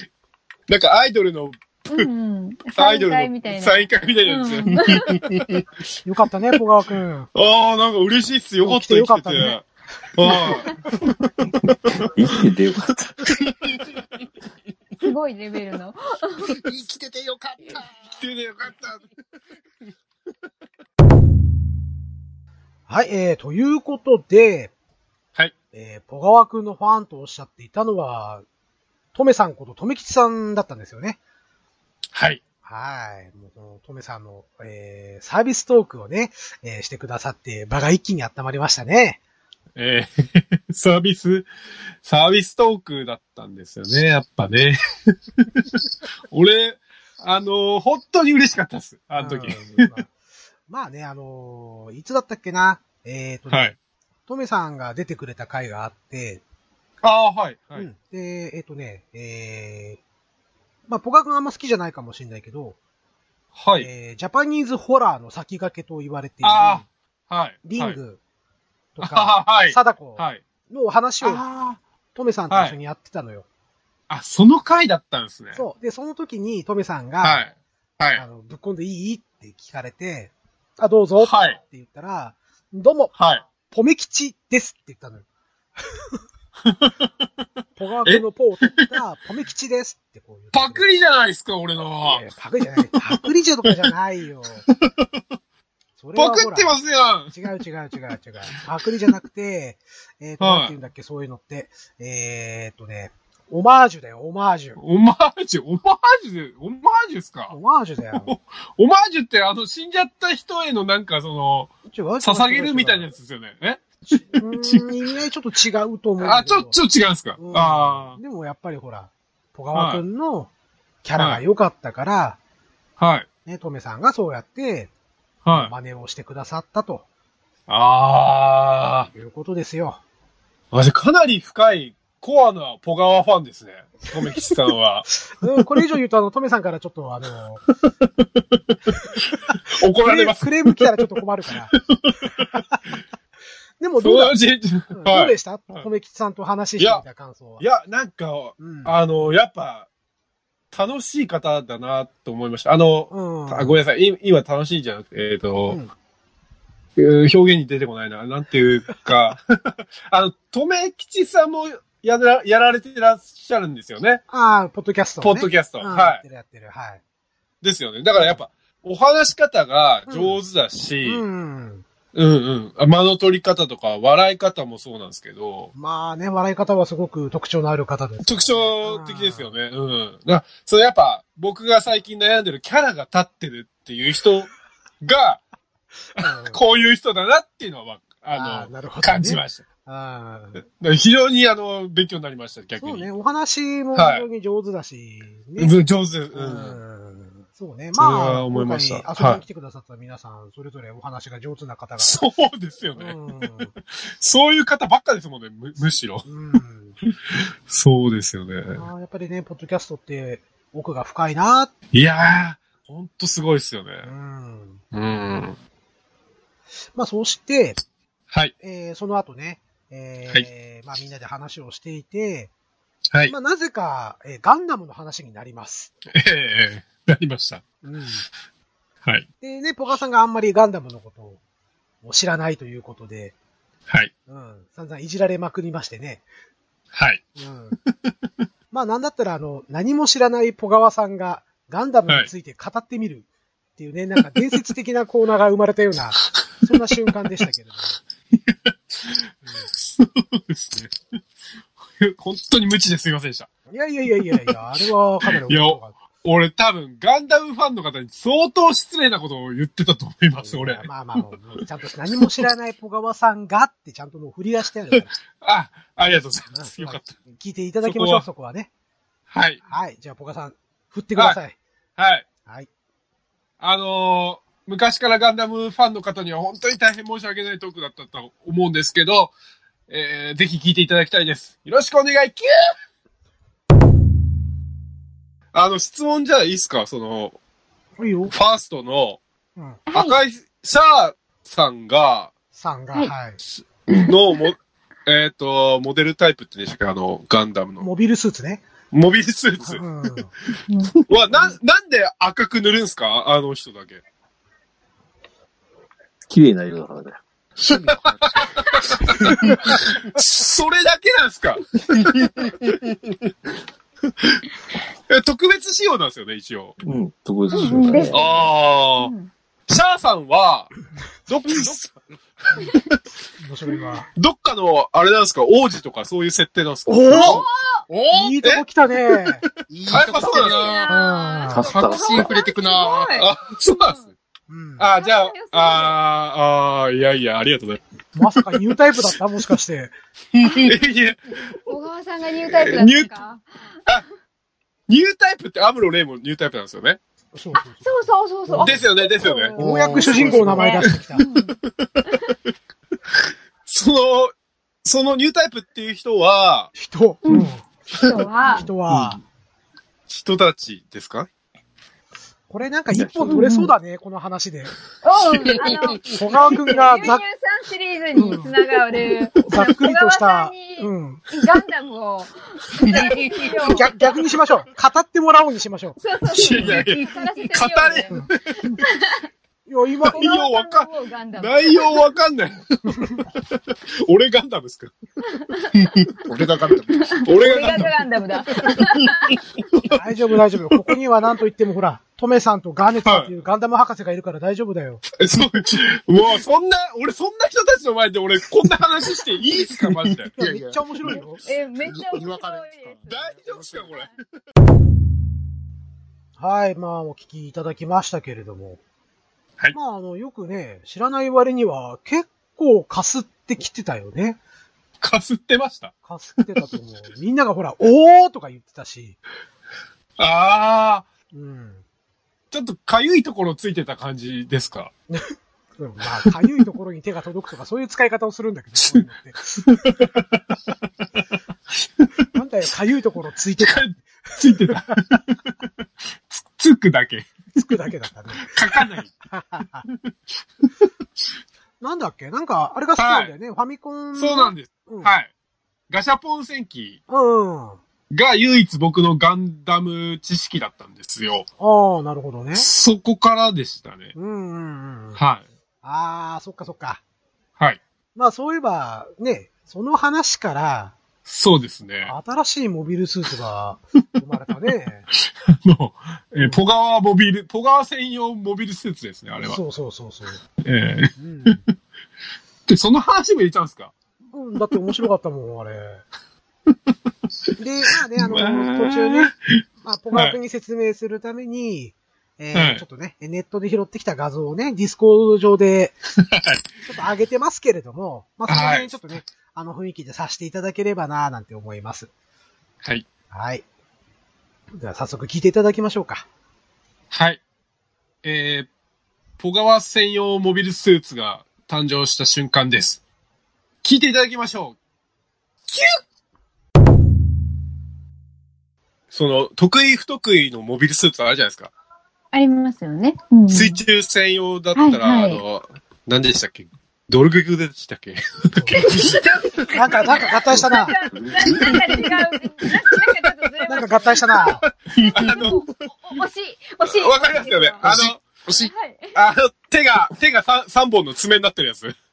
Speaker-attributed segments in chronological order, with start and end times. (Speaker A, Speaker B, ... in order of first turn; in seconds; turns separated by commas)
Speaker A: 0.7-2.1, Speaker B: 1.9-5.2, Speaker A: 2.7-5.0, Speaker C: 6.0-7.3, Speaker A: 7.3-11.1, Speaker C: 8.6-9.6, Speaker C: 10.2-10.5, Speaker D: 12.1-13.2, Speaker B: 15.0-16.5, Speaker E: 16.5-18.1, Speaker A: 18.1-19.0, Speaker C: 22.9-24.7, Speaker C: 25.7-28.4, Speaker C: 29.1-31.2, Speaker A: 32.1-32.4, Speaker C: 32.6-39.2, Speaker A: 39.8-41.5, Speaker A: 42.0-44.8, Speaker A: 46.3-49.9, Speaker C: 49.1-50.1, Speaker C: 50.7-53.8, Speaker A: 53.5-53.8, Speaker C: 54.3-56.4, Speaker A: 57.0-57.9, Speaker C: 57.7-60.0, Speaker C: 60.9-62.8, Speaker A: 63.5-63.9, Speaker C: 63.8-66.8, Speaker A: 66.4-68.0, Speaker C: 67.6-68.2, Speaker C: 69.0-71.4, Speaker A: 69.0-70.4, Speaker A: 71.2-71.8, Speaker C: 72.1-73.5, Speaker A: 72.5-72.8, Speaker A: 74.1-75.6, Speaker C: 75.5-77.5, Speaker A: 77.2-78.2, Speaker C: 78.1-83.1, Speaker A: 81.2-81.6, Speaker A: 83.2-83.4, Speaker C: 83.7-85.2, Speaker A: 86.6-87.1, Speaker C: 87.8-90.8, Speaker A: 88.0-88.9, Speaker A: 90.5-92.2, Speaker C: 92.0-94.6, Speaker A: 93.1-93.8, Speaker A: 94.7-95.1, Speaker C: 96.0-96.8, Speaker A: 96.2-97.3, Speaker C: 97.3-104.8, Speaker A: 100.4-100.8, Speaker A: 104.8-107.5, Speaker C: 107.5-108.3, Speaker A: 108.2-114.9, Speaker C: 111.9-113.1, Speaker C: 114.1-116.8, Speaker A: 116.2-118.2, Speaker C: 117.4-120.5, Speaker A: 119.7-120.0, Speaker C: 121.0-122.4, Speaker A: 121.2-121.4, Speaker A: 123.0-123.3, Speaker C: 123.5-124.9, Speaker A: 125.5-125.7, Speaker C: 125.5-127.0, Speaker A: 127.7-129.1, Speaker C: 129.1-130.0, Speaker A: 130.7-135.1, Speaker C: 135.3-137.7, Speaker A: 138.2-140.8, Speaker C: 140.0-141.7, Speaker A: 141.7-142.6, Speaker C: 142.4-142.8, Speaker C: 143.8-144.3, Speaker A: 144.0-145.8, Speaker C: 144.9-147.6, Speaker A: 146.8-147.0, Speaker A: 147.6-149.9, Speaker C: 148.6-148.9, Speaker A: 150.7-155.8, Speaker C: 153.1-153.8, Speaker A: 156.9-159.4, Speaker A: 160.1-164.2, Speaker C: 164.3-167.0, Speaker A: 165.2-166.2, Speaker A: 167.6-171.2, Speaker C: 168.2-168.4, Speaker C: 170.1-170.4, Speaker C: 171.0-171.8, Speaker A: 172.1-175.7, Speaker C: 175.7-179.5, Speaker A: 178.2-185.4, Speaker A: 186.2-189.6, Speaker C: 186.2-186.6, Speaker C: 188.3-190.6, Speaker A: 190.8-193.1, Speaker C: 192.8-195.8, Speaker A: 193.9-194.2, Speaker A: 195.6-196.8, Speaker C: 196.3-202.2, Speaker A: 198.0-199.4, Speaker A: 202.0-203.5, Speaker C: 202.9-203.7, Speaker A: 204.2-206.3, Speaker C: 206.2-206.9, Speaker A: 207.1-208.8, Speaker C: 208.7-211.7, Speaker A: 211.9-214.1, Speaker C: 214.0-214.8, Speaker A: 214.9-215.6, Speaker C: 216.9-217.8, Speaker C: 218.6-222.5, Speaker C: 223.2-225.9, Speaker A: 226.1-227.6, Speaker C: 227.8-228.2, Speaker C: 229.4-231.4, Speaker C: 232.0-233.3, Speaker C: 234.3-236.2, Speaker A: 236.9-237.2, Speaker C: 237.4-237.8, Speaker C: 238.7-248.0, Speaker A: 248.4-251.2, Speaker A: 252.0-253.5, Speaker C: 253.7-256.0, Speaker A: 255.2-261.2, Speaker C: 260.4-265.1, Speaker A: 264.9-267.2, Speaker C: 266.5-268.7, Speaker A: 267.8-268.2, Speaker A: 269.3-269.6, Speaker C: 269.7-271.6, Speaker A: 272.0-272.2, Speaker A: 273.6-279.3, Speaker A: 279.9-282.7, Speaker A: 285.5-287.4, Speaker C: 288.0-288.3, Speaker A: 288.3-289.2, Speaker C: 289.6-289.8, Speaker B: 289.9-290.2, Speaker A: 289.9-292.3, Speaker C: 292.5-293.4, Speaker A: 293.9-297.9, Speaker C: 297.8-298.6, Speaker A: 298.9-299.8, Speaker C: 299.6-300.3, Speaker A: 301.0-304.0, Speaker D: 306.3-307.2, Speaker E: 307.6-308.6, Speaker A: 308.2-311.7, Speaker E: 312.0-312.7, Speaker A: 315.1-316.8, Speaker D: 316.8-318.2, Speaker B: 317.5-318.4, Speaker A: 318.1-319.1, Speaker B: 319.0-319.3, Speaker A: 319.7-320.7, Speaker A: 321.3-321.8, Speaker E: 321.5-321.9, Speaker C: 323.4-324.1, Speaker A: 324.1-327.1, Speaker C: 326.9-327.4, Speaker E: 327.1-328.3, Speaker B: 327.1-327.8, Speaker C: 328.1-329.4, Speaker E: 329.7-333.1, Speaker A: 329.9-330.8, Speaker B: 330.2-333.3, Speaker C: 330.9-331.6, Speaker D: 331.5-332.3, Speaker A: 333.1-334.1, Speaker C: 334.5-334.9, Speaker A: 334.8-337.8, Speaker B: 335.0-336.0, Speaker C: 338.1-339.9, Speaker A: 338.3-339.1, Speaker B: 340.4-340.8, Speaker A: 340.6-341.4, Speaker B: 341.6-343.9, Speaker A: 342.4-343.1, Speaker A: 344.9-347.0, Speaker C: 347.3-348.8, Speaker B: 347.8-351.6, Speaker A: 348.6-349.5, Speaker E: 349.6-350.7, Speaker C: 349.6-351.2, Speaker A: 351.8-352.1, Speaker A: 353.7-354.3, Speaker A: 354.8-356.7, Speaker C: 356.8-357.6, Speaker B: 357.2-358.7, Speaker C: 358.5-359.2, Speaker A: 360.1-361.3, Speaker C: 362.5-364.7, Speaker D: 362.9-363.4, Speaker B: 363.3-363.7, Speaker B: 365.0-373.9, Speaker C: 366.1-367.2, Speaker C: 368.1-368.5, Speaker C: 369.5-371.2, Speaker C: 373.6-376.0, Speaker B: 376.0-379.2, Speaker A: 376.3-378.5, Speaker C: 379.7-380.3, Speaker B: 380.1-382.0, Speaker A: 380.1-384.9, Speaker C: 382.9-383.2, Speaker B: 385.4-385.9, Speaker E: 386.2-387.2, Speaker B: 386.9-389.4, Speaker A: 387.2-390.0, Speaker C: 389.9-395.0, Speaker A: 395.2-400.3, Speaker E: 399.5-401.2, Speaker C: 400.4-401.4, Speaker B: 401.4-404.1, Speaker E: 401.8-402.9, Speaker A: 403.1-404.2, Speaker E: 403.5-403.7, Speaker C: 406.4-408.8, Speaker C: 409.7-414.4, Speaker A: 415.0-415.9, Speaker C: 416.1-419.2, Speaker A: 420.2-421.1, Speaker C: 421.3-421.8, Speaker A: 422.5-424.9, Speaker C: 425.1-429.9, Speaker A: 429.7-430.4, Speaker A: 431.8-432.1, Speaker C: 432.3-434.0, Speaker A: 433.6-435.3, Speaker A: 436.3-437.3, Speaker C: 437.5-439.8, Speaker A: 438.4-439.1, Speaker C: 441.8-445.1, Speaker A: 443.0-443.3, Speaker A: 444.2-445.3, Speaker A: 445.9-447.0, Speaker C: 447.1-447.8, Speaker A: 448.1-451.5, Speaker C: 451.6-452.7, Speaker A: 452.6-454.1, Speaker C: 454.1-455.2, Speaker A: 455.1-455.4, Speaker C: 455.8-457.0, Speaker C: 458.1-460.9, Speaker A: 461.2-462.1, Speaker C: 462.0-465.1, Speaker A: 465.5-469.6, Speaker C: 466.4-466.6, Speaker C: 469.4-470.4, Speaker A: 470.6-471.6, Speaker C: 471.2-471.6, Speaker A: 472.7-473.9, Speaker C: 474.3-476.0, Speaker C: 477.6-479.3, Speaker A: 478.2-479.6, Speaker C: 479.8-486.0, Speaker A: 482.5-482.8, Speaker A: 486.2-486.6, Speaker C: 486.8-492.1, Speaker A: 488.5-489.2, Speaker C: 493.3-493.6, Speaker C: 494.8-496.2, Speaker A: 497.1-497.4, Speaker A: 498.2-498.7, Speaker A: 499.4-503.0, Speaker A: 503.8-504.8, Speaker A: 505.7-506.0, Speaker A: 509.1-511.7, Speaker B: 512.3-513.8, Speaker A: 513.5-519.7, Speaker B: 514.7-515.4, Speaker C: 518.5-519.1, Speaker B: 518.7-524.6, Speaker C: 519.7-520.9, Speaker D: 521.2-521.8, Speaker A: 522.7-523.0, Speaker C: 523.6-524.6, Speaker A: 524.6-525.9, Speaker B: 525.2-527.8, Speaker A: 526.8-528.2, Speaker E: 527.8-528.7, Speaker B: 528.5-529.1, Speaker A: 529.1-531.9